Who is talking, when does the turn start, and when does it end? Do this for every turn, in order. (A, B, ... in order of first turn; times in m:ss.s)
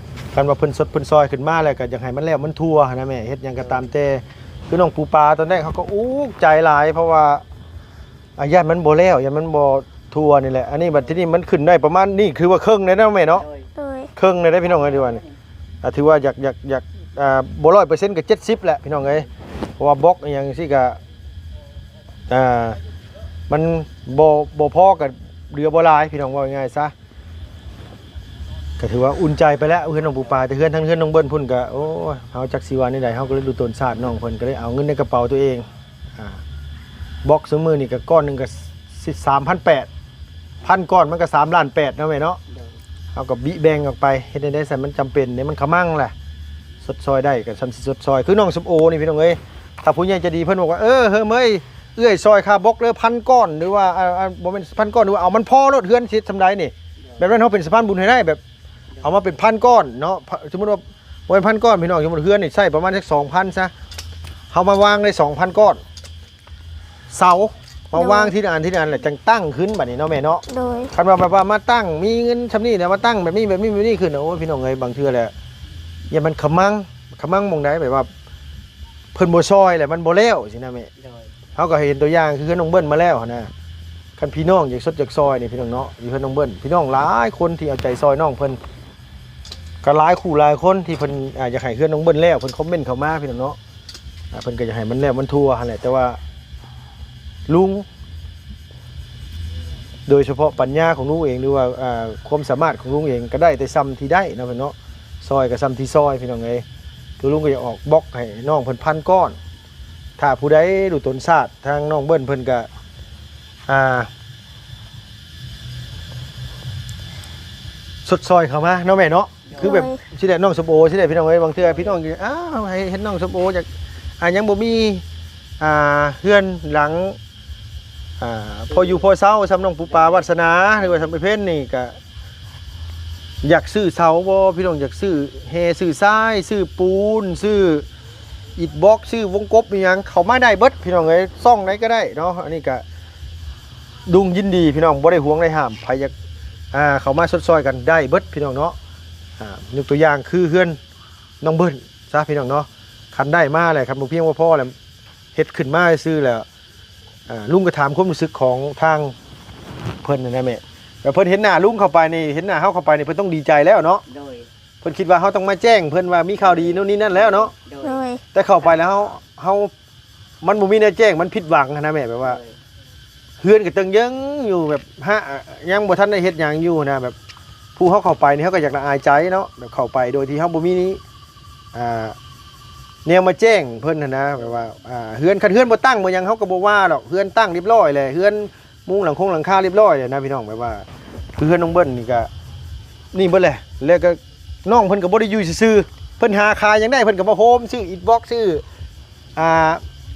0:00.3-0:07.4 A
0:08.4-0:13.4 A
0:13.3-0:13.7 B
0:13.8-0:14.1 C
0:14.2-0:15.2 A
0:14.6-0:15.4 B
0:15.8-0:19.3 A
0:19.8-0:21.0 A
0:22.3-0:22.8 A
0:23.5-0:26.9 A
0:28.8-0:36.4 A
0:37.2-0:39.9 A
0:40.6-0:42.4 A
0:42.5-0:42.8 B
0:43.1-0:46.1 A
0:46.8-0:58.4 A
0:59.0-1:03.7 A
1:04.5-1:05.8 A
1:07.1-1:15.3 A
1:07.9-1:08.3 C
1:10.5-1:10.9 C
1:16.1-1:18.1 A
1:19.1-1:20.9 A
1:21.0-1:21.3 B
1:21.6-1:23.5 A
1:24.2-1:28.6 A
1:29.8-1:33.6 A
1:34.3-1:36.2 A
1:37.5-1:37.9 A
1:40.1-1:46.6 A
1:47.2-1:49.4 A
1:50.2-1:52.7 A
1:53.7-1:54.1 A
1:58.0-2:03.7 A
1:59.4-1:59.8 B
1:59.6-2:00.0 C
2:01.6-2:02.0 B
2:04.2-2:05.0 A
2:05.6-2:07.2 A
2:08.2-2:11.9 A
2:08.7-2:09.1 B
2:09.8-2:11.1 B
2:13.4-2:17.8 A
2:18.6-2:22.8 A
2:24.0-2:26.1 A
2:26.7-2:28.8 A
2:29.4-2:30.8 A
2:31.4-2:34.7 A
2:35.3-2:36.4 A
2:37.3-2:39.1 A
2:40.0-2:44.0 A
2:44.1-2:44.5 B
2:44.8-2:47.5 A
2:46.4-2:48.0 B
2:47.8-2:48.2 C
2:48.3-2:49.7 A
2:50.4-2:52.4 A
2:52.2-2:52.6 B
2:53.4-2:57.1 A
2:57.8-3:01.0 A
3:01.7-3:02.2 A
3:03.0-3:12.3 A
3:13.1-3:18.6 A
3:19.4-3:19.8 A